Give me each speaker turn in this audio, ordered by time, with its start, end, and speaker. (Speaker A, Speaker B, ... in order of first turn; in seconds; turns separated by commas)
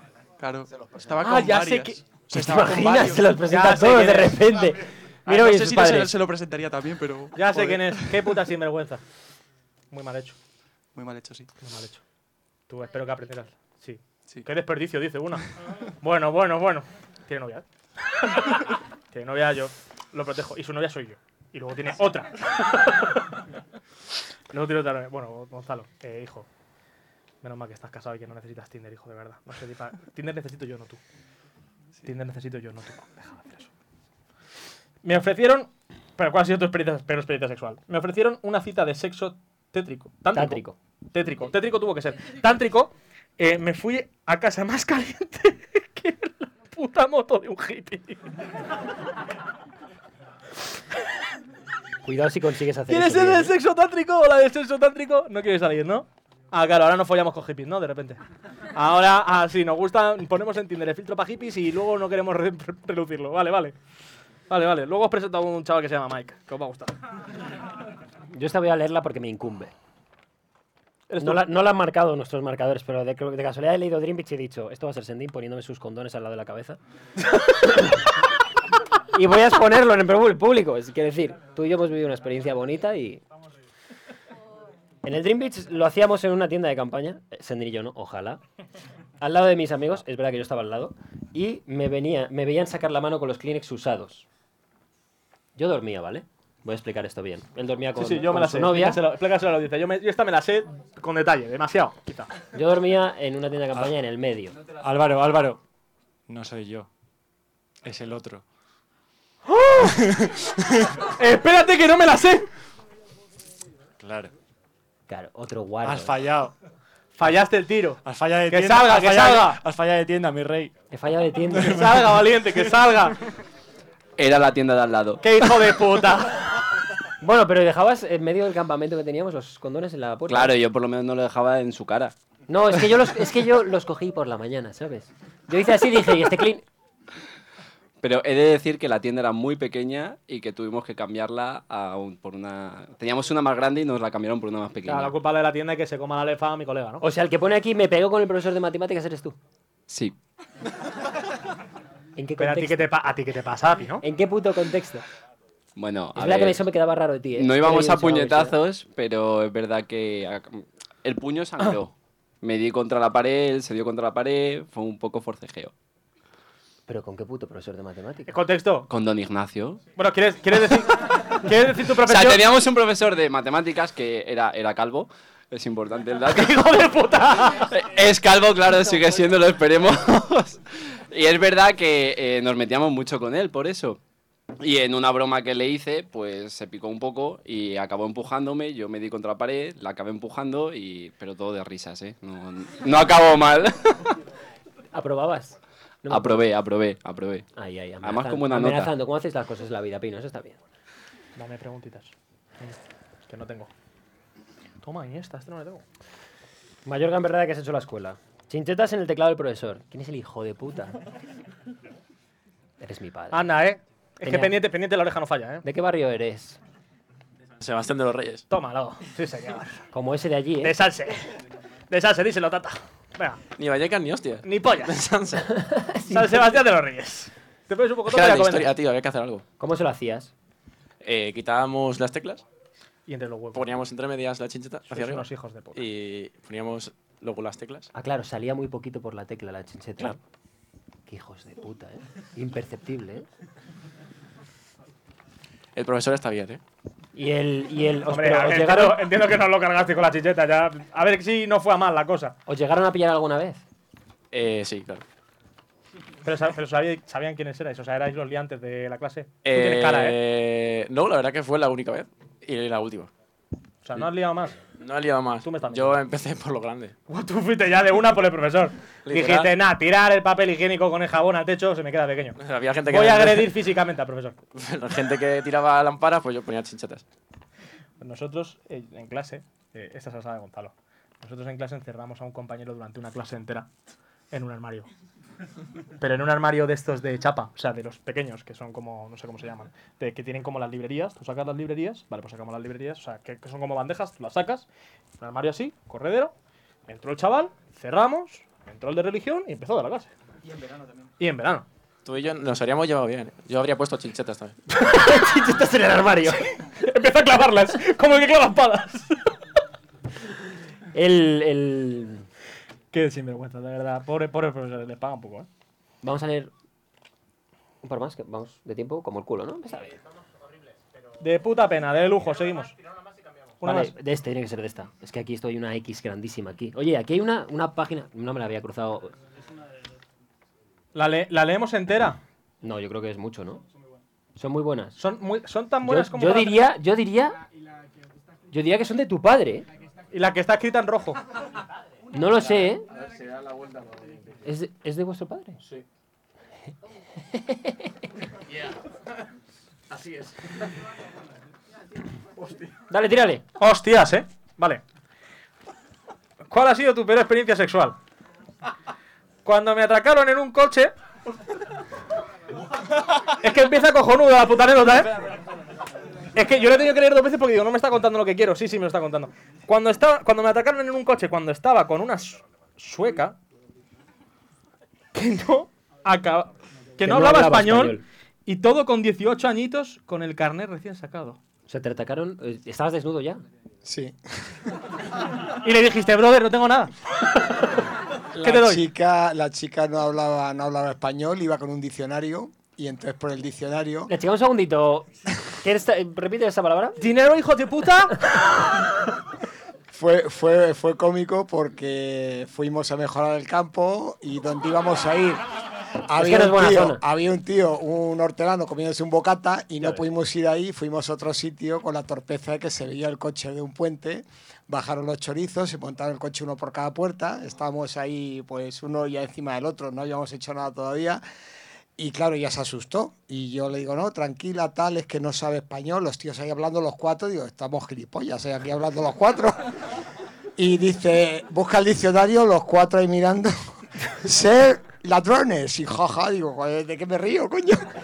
Speaker A: 0.4-3.4, Speaker B: 1.2-2.0, Speaker C: 2.3-6.1, Speaker B: 3.5-4.4, Speaker A: 5.3-8.4, Speaker B: 7.3-9.0, Speaker B: 9.9-10.4, Speaker A: 10.9-11.5, Speaker B: 11.6-12.0, Speaker B: 12.7-15.5, Speaker B: 16.0-17.6, Speaker B: 19.1-22.4, Speaker B: 24.5-26.5, Speaker B: 27.4-31.0, Speaker B: 32.0-33.7, Speaker B: 35.0-48.2, Speaker C: 40.3-40.8, Speaker C: 52.0-53.5, Speaker B: 52.9-58.2, Speaker B: 58.8-63.8, Speaker B: 64.5-66.9, Speaker C: 68.3-69.7, Speaker B: 71.1-71.5, Speaker C: 71.2-76.8, Speaker C: 77.4-78.0, Speaker C: 79.1-83.2, Speaker C: 85.0-88.4, Speaker C: 89.2-94.3, Speaker C: 95.6-99.0, Speaker B: 98.0-102.3, Speaker C: 102.5-104.5, Speaker B: 109.5-110.0, Speaker B: 111.2-112.5, Speaker C: 115.1-116.2, Speaker B: 117.2-119.6, Speaker C: 120.9-122.1, Speaker B: 121.6-123.2, Speaker D: 124.2-125.2, Speaker B: 125.2-126.4, Speaker C: 127.2-130.5, Speaker D: 130.3-132.1, Speaker C: 132.5-136.7, Speaker D: 138.0-145.2, Speaker B: 144.8-147.1, Speaker C: 147.0-149.4, Speaker D: 149.9-150.2, Speaker C: 152.2-152.9, Speaker B: 152.4-154.0, Speaker C: 154.0-155.0, Speaker D: 155.8-156.6, Speaker C: 156.2-158.6, Speaker D: 157.4-165.7, Speaker C: 166.9-168.3, Speaker B: 168.3-168.9, Speaker D: 168.9-169.8, Speaker B: 170.0-172.4, Speaker D: 172.1-176.6, Speaker B: 176.3-177.7, Speaker D: 177.6-180.6, Speaker D: 181.1-184.0, Speaker D: 184.6-194.0, Speaker C: 194.9-196.5, Speaker D: 196.1-197.5, Speaker C: 197.6-200.6, Speaker D: 198.0-198.9, Speaker B: 201.4-203.7, Speaker B: 204.8-205.8, Speaker C: 206.8-211.0, Speaker C: 212.8-213.5, Speaker B: 213.3-215.6, Speaker C: 214.2-214.6, Speaker C: 215.6-216.6, Speaker E: 217.6-218.4, Speaker B: 218.5-219.8, Speaker C: 219.9-220.8, Speaker B: 220.6-221.2, Speaker B: 221.9-223.4, Speaker E: 223.6-225.5, Speaker B: 224.4-224.9, Speaker C: 225.7-226.5, Speaker B: 226.1-228.7, Speaker E: 228.1-229.4, Speaker C: 229.6-230.3, Speaker E: 231.0-232.4, Speaker B: 233.1-233.7, Speaker E: 233.5-237.9, Speaker B: 234.9-235.8, Speaker C: 237.9-240.2, Speaker C: 241.1-243.3, Speaker E: 245.8-246.6, Speaker C: 247.1-249.0, Speaker B: 248.1-252.4, Speaker C: 252.5-253.6, Speaker E: 254.3-255.0, Speaker B: 256.2-260.2, Speaker E: 259.4-263.1, Speaker B: 263.8-264.6, Speaker E: 264.8-266.9, Speaker B: 265.4-266.0, Speaker B: 267.1-274.4, Speaker E: 269.1-269.5, Speaker E: 272.4-273.5, Speaker E: 274.6-277.0, Speaker B: 278.0-283.7, Speaker B: 284.3-284.9, Speaker B: 286.0-294.7, Speaker B: 295.2-296.3, Speaker B: 296.9-300.1, Speaker B: 301.2-301.7, Speaker E: 302.1-304.6, Speaker C: 304.7-306.4, Speaker B: 306.8-309.1, Speaker C: 310.9-312.3, Speaker B: 312.9-315.5, Speaker C: 316.0-316.5, Speaker C: 317.8-320.0, Speaker B: 321.2-322.7, Speaker B: 323.6-323.9, Speaker C: 323.6-329.1, Speaker B: 330.9-332.2, Speaker C: 332.6-333.6, Speaker C: 334.4-335.0, Speaker B: 335.0-336.6, Speaker C: 335.8-337.4, Speaker C: 338.5-339.7, Speaker B: 340.1-341.2, Speaker C: 342.1-342.9, Speaker C: 344.4-345.6, Speaker C: 352.9-353.4, Speaker B: 353.6-354.8, Speaker B: 356.5-358.0, Speaker B: 359.4-360.9, Speaker B: 363.4-365.1, Speaker B: 366.4-373.4, Speaker B: 375.1-381.4, Speaker C: 377.0-378.0, Speaker C: 381.7-383.4, Speaker F: 383.8-384.1, Speaker B: 385.6-386.9, Speaker F: 388.4-394.1, Speaker B: 388.4-388.8, Speaker C: 394.1-397.0, Speaker B: 397.0-398.2, Speaker F: 399.9-405.4, Speaker F: 406.1-421.2, Speaker C: 406.2-407.0, Speaker F: 422.0-429.6, Speaker F: 430.6-433.6, Speaker F: 434.2-437.8